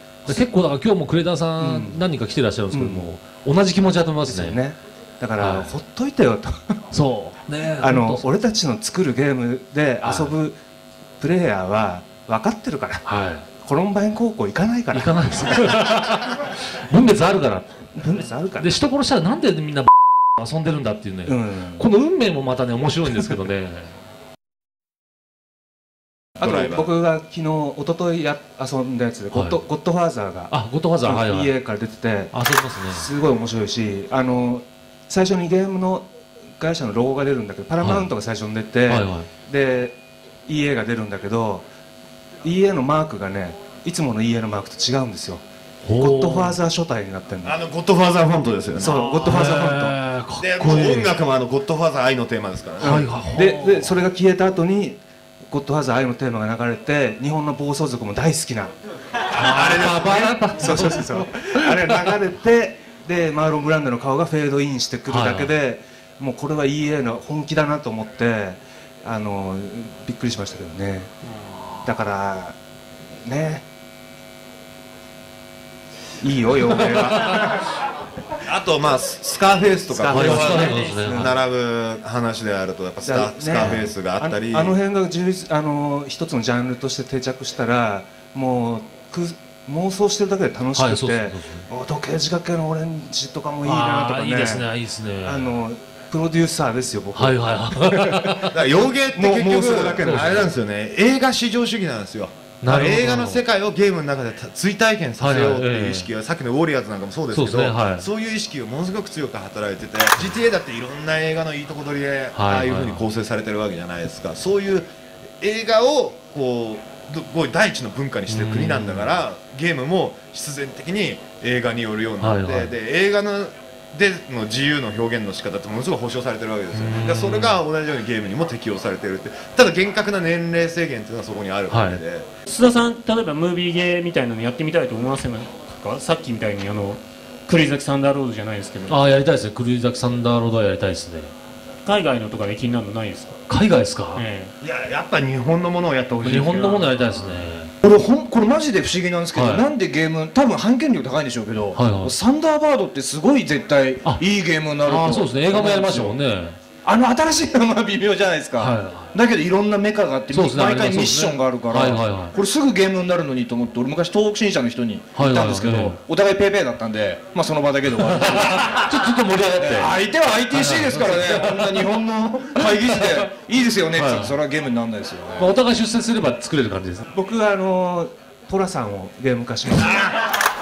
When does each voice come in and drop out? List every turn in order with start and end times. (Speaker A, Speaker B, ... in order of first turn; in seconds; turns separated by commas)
Speaker A: 0.3-4.6, Speaker B: 1.6-2.0, Speaker B: 2.7-3.1, Speaker B: 4.2-6.8, Speaker A: 5.4-5.7, Speaker A: 6.9-8.2, Speaker B: 7.8-10.6, Speaker A: 10.0-10.3, Speaker B: 11.2-13.1, Speaker A: 13.1-13.5, Speaker B: 13.6-15.8, Speaker A: 14.9-17.8, Speaker B: 17.9-18.7, Speaker A: 18.6-24.0, Speaker B: 21.3-21.9, Speaker C: 26.4-26.9, Speaker B: 26.4-32.3, Speaker A: 29.3-29.6, Speaker A: 30.5-31.6, Speaker A: 32.3-33.1, Speaker B: 32.9-40.0, Speaker A: 37.8-38.1, Speaker A: 38.9-39.3, Speaker B: 40.5-41.7, Speaker B: 42.4-45.4, Speaker A: 45.9-46.6, Speaker B: 46.0-47.6, Speaker C: 47.4-49.1, Speaker B: 48.8-50.0, Speaker D: 48.9-49.2, Speaker A: 49.2-51.1, Speaker C: 50.4-53.0, Speaker B: 52.8-58.7, Speaker A: 52.8-53.9, Speaker A: 59.4-62.0, Speaker C: 59.4-60.4, Speaker B: 59.7-71.1, Speaker A: 65.1-65.5, Speaker B: 71.8-72.6, Speaker B: 73.2-73.7, Speaker B: 76.2-77.7, Speaker A: 76.9-77.4, Speaker C: 78.4-84.8, Speaker A: 80.0-81.3, Speaker B: 80.1-81.3, Speaker D: 80.6-80.9, Speaker B: 83.0-94.7, Speaker A: 83.5-83.9, Speaker A: 90.8-91.7, Speaker A: 93.6-95.5, Speaker B: 95.2-98.3, Speaker A: 97.1-98.5, Speaker C: 98.5-114.9, Speaker B: 99.1-100.5, Speaker A: 100.0-100.5, Speaker A: 102.6-103.4, Speaker A: 105.2-106.1, Speaker A: 107.3-108.1, Speaker A: 112.3-113.1, Speaker C: 115.4-132.3, Speaker A: 118.3-119.1, Speaker A: 122.2-122.7, Speaker A: 126.7-127.6, Speaker A: 131.7-132.0, Speaker D: 132.5-139.0, Speaker A: 138.9-141.3, Speaker D: 141.8-143.4, Speaker A: 143.5-144.2, Speaker D: 144.2-144.5, Speaker C: 144.6-146.9, Speaker A: 146.2-147.7, Speaker E: 147.8-156.2, Speaker A: 149.3-149.7, Speaker A: 151.8-152.2, Speaker A: 154.8-156.6, Speaker E: 156.8-168.9, Speaker A: 158.6-159.1, Speaker A: 160.3-162.3, Speaker A: 165.2-166.0, Speaker A: 168.1-169.9, Speaker E: 169.6-175.5, Speaker A: 170.5-171.9, Speaker A: 172.6-173.3, Speaker A: 173.9-174.4, Speaker A: 175.4-177.0, Speaker B: 177.1-180.1, Speaker C: 179.8-180.1